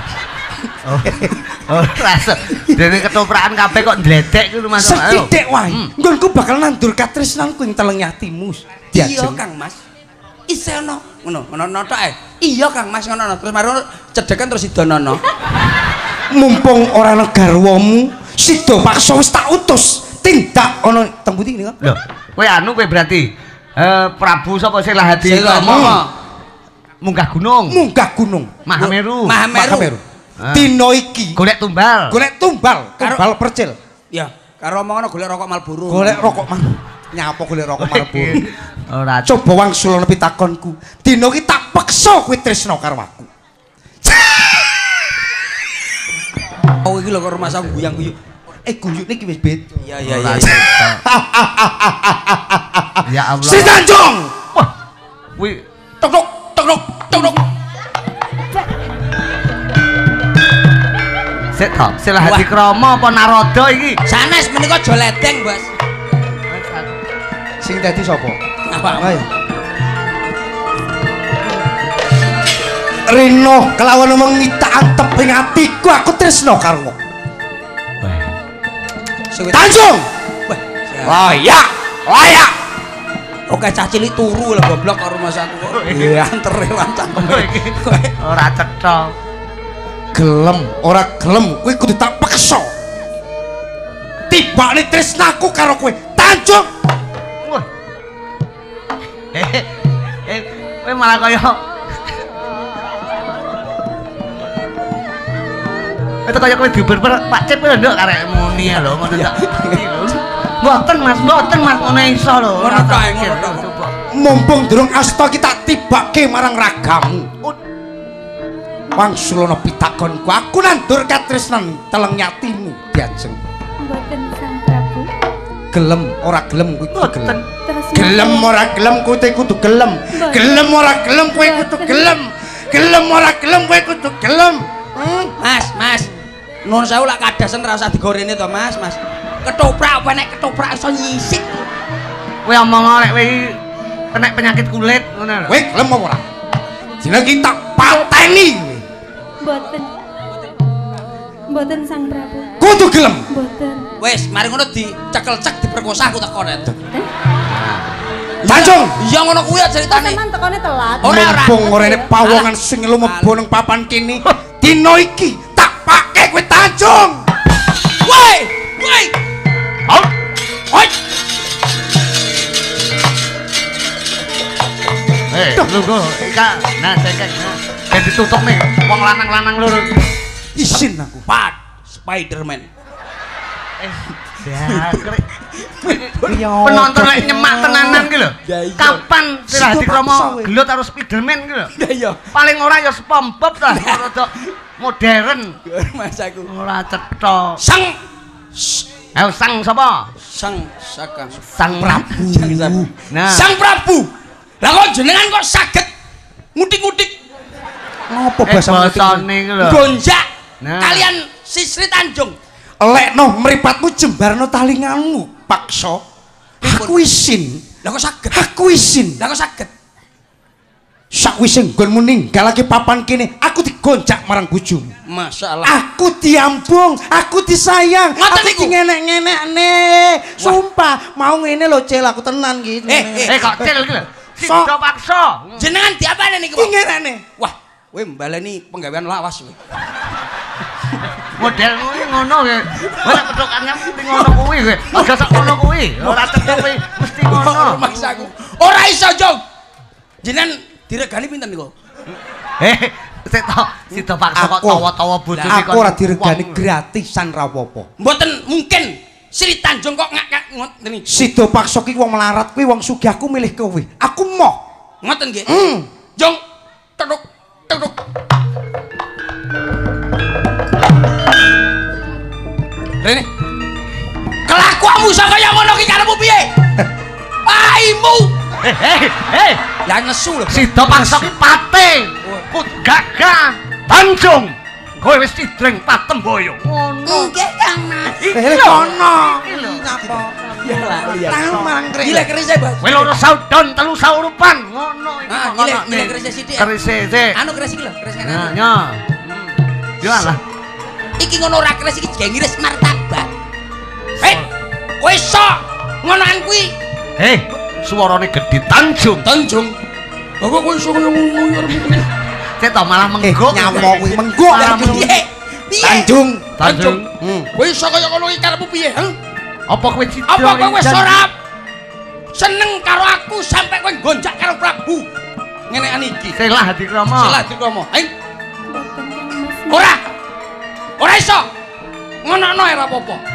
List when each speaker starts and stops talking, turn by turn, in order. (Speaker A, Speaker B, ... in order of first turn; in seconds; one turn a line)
Speaker A: 0.8-5.9
Speaker B: 1.0-1.3
Speaker B: 4.7-9.4
Speaker C: 8.9-9.8
Speaker C: 10.5-15.2
Speaker B: 16.3-21.8
Speaker A: 21.8-26.0
Speaker C: 25.2-26.1
Speaker B: 25.6-26.0
Speaker A: 27.0-27.8
Speaker B: 27.7-28.6
Speaker A: 28.7-29.4
Speaker C: 28.7-29.9
Speaker B: 29.5-31.4
Speaker A: 30.4-30.7
Speaker A: 31.3-32.2
Speaker B: 32.1-33.8
Speaker C: 34.1-36.4
Speaker B: 35.9-38.4
Speaker A: 37.8-39.3
Speaker B: 39.2-43.3
Speaker B: 44.0-44.7
Speaker C: 46.8-48.1
Speaker B: 48.6-54.3
Speaker C: 49.8-50.6
Speaker A: 50.0-51.0
Speaker A: 53.0-53.8
Speaker A: 55.4-55.6
Speaker C: 56.0-57.5
Speaker A: 61.5-64.0
Speaker C: 62.2-62.5
Speaker C: 64.0-65.7
Speaker A: 66.5-67.0
Speaker B: 67.6-68.4
Speaker C: 68.7-69.2
Speaker B: 68.9-69.2
Speaker B: 73.1-77.0
Speaker A: 78.0-78.3
Speaker C: 79.3-79.7
Speaker B: 79.5-80.1
Speaker C: 80.5-81.2
Speaker B: 81.0-82.5
Speaker C: 83.5-88.1
Speaker A: 85.7-86.2
Speaker A: 87.2-89.1
Speaker B: 90.1-92.7
Speaker B: 94.3-96.7
Speaker A: 99.3-102.1
Speaker A: 106.2-113.9
Speaker C: 109.0-109.9
Speaker C: 112.6-113.7
Speaker B: 114.1-117.3
Speaker B: 118.9-123.4
Speaker D: 123.8-125.1
Speaker B: 125.7-127.4
Speaker A: 126.9-127.4
Speaker D: 127.4-128.5
Speaker B: 127.9-135.3
Speaker D: 130.1-130.6
Speaker D: 131.3-132.2
Speaker C: 135.4-136.1
Speaker C: 136.6-141.7
Speaker A: 142.4-143.6
Speaker A: 144.1-145.6
Speaker B: 145.5-146.2
Speaker B: 147.0-148.8
Speaker D: 149.4-150.0
Speaker D: 151.5-152.5
Speaker B: 152.6-153.2
Speaker D: 153.3-153.9
Speaker C: 154.0-156.7
Speaker A: 157.5-157.9
Speaker C: 158.4-160.2
Speaker B: 158.4-158.9
Speaker D: 159.9-162.1
Speaker C: 161.0-161.7
Speaker B: 161.0-167.2
Speaker C: 162.2-162.5
Speaker C: 163.0-163.3
Speaker C: 168.0-169.1
Speaker A: 175.3-180.1
Speaker B: 180.5-181.2
Speaker C: 180.6-182.7
Speaker A: 183.8-185.2
Speaker C: 184.6-186.5
Speaker A: 185.9-191.7
Speaker B: 186.3-188.1
Speaker C: 187.9-189.0
Speaker B: 189.5-190.5
Speaker C: 191.7-192.2
Speaker A: 192.3-195.6
Speaker C: 193.7-194.4
Speaker C: 195.7-196.5
Speaker A: 196.5-197.6
Speaker C: 197.6-198.0
Speaker C: 198.5-198.8
Speaker A: 199.1-200.1
Speaker C: 200.2-201.4
Speaker A: 201.5-202.1
Speaker B: 201.6-202.9
Speaker C: 202.1-204.1
Speaker A: 203.1-203.5
Speaker C: 204.6-205.9
Speaker C: 206.5-207.1
Speaker B: 208.1-209.3
Speaker A: 208.5-209.9
Speaker C: 209.6-210.2
Speaker A: 210.6-211.1
Speaker C: 210.8-212.3
Speaker B: 212.8-216.0
Speaker C: 216.6-217.0
Speaker B: 216.6-217.6
Speaker C: 217.8-218.4
Speaker B: 218.3-219.2
Speaker C: 219.2-219.7
Speaker B: 221.1-224.9
Speaker C: 225.1-225.8
Speaker B: 225.6-234.7
Speaker C: 228.2-228.8
Speaker C: 232.9-233.4
Speaker A: 233.2-235.7
Speaker C: 235.6-236.7
Speaker B: 236.6-237.2
Speaker C: 237.4-239.6
Speaker A: 241.3-248.0
Speaker C: 242.8-249.4
Speaker C: 250.2-251.7
Speaker A: 252.6-256.6
Speaker B: 254.3-254.9
Speaker C: 255.3-255.6
Speaker B: 255.5-257.9
Speaker C: 258.0-261.1
Speaker B: 261.1-264.6
Speaker C: 265.0-265.5
Speaker B: 265.5-265.9
Speaker C: 267.0-267.9
Speaker C: 273.0-273.3
Speaker C: 274.4-276.6
Speaker C: 277.4-278.4
Speaker A: 278.6-279.6
Speaker C: 279.8-281.3
Speaker A: 280.5-287.3
Speaker C: 287.0-288.6
Speaker A: 288.2-290.2
Speaker B: 288.3-290.4
Speaker C: 290.6-293.1
Speaker D: 290.6-290.9
Speaker A: 291.0-291.7
Speaker B: 291.2-292.3
Speaker A: 292.8-297.4
Speaker C: 295.3-296.7
Speaker C: 297.3-298.6
Speaker A: 298.2-299.0
Speaker C: 299.2-299.5
Speaker A: 300.0-300.4
Speaker C: 301.2-303.3
Speaker C: 304.2-304.4
Speaker C: 305.0-306.7
Speaker A: 307.2-309.2
Speaker C: 309.2-309.8
Speaker C: 310.4-312.1
Speaker A: 312.6-315.2
Speaker B: 313.2-315.2
Speaker C: 313.7-317.0
Speaker B: 315.8-316.6
Speaker A: 316.6-317.1
Speaker B: 317.2-317.5
Speaker C: 317.5-319.1
Speaker A: 319.7-321.2
Speaker C: 320.3-321.3
Speaker C: 322.3-325.1
Speaker C: 325.7-326.4
Speaker A: 326.4-327.4
Speaker C: 327.1-328.1
Speaker D: 328.7-329.9
Speaker C: 329.7-330.0
Speaker C: 331.0-331.5
Speaker C: 332.2-333.2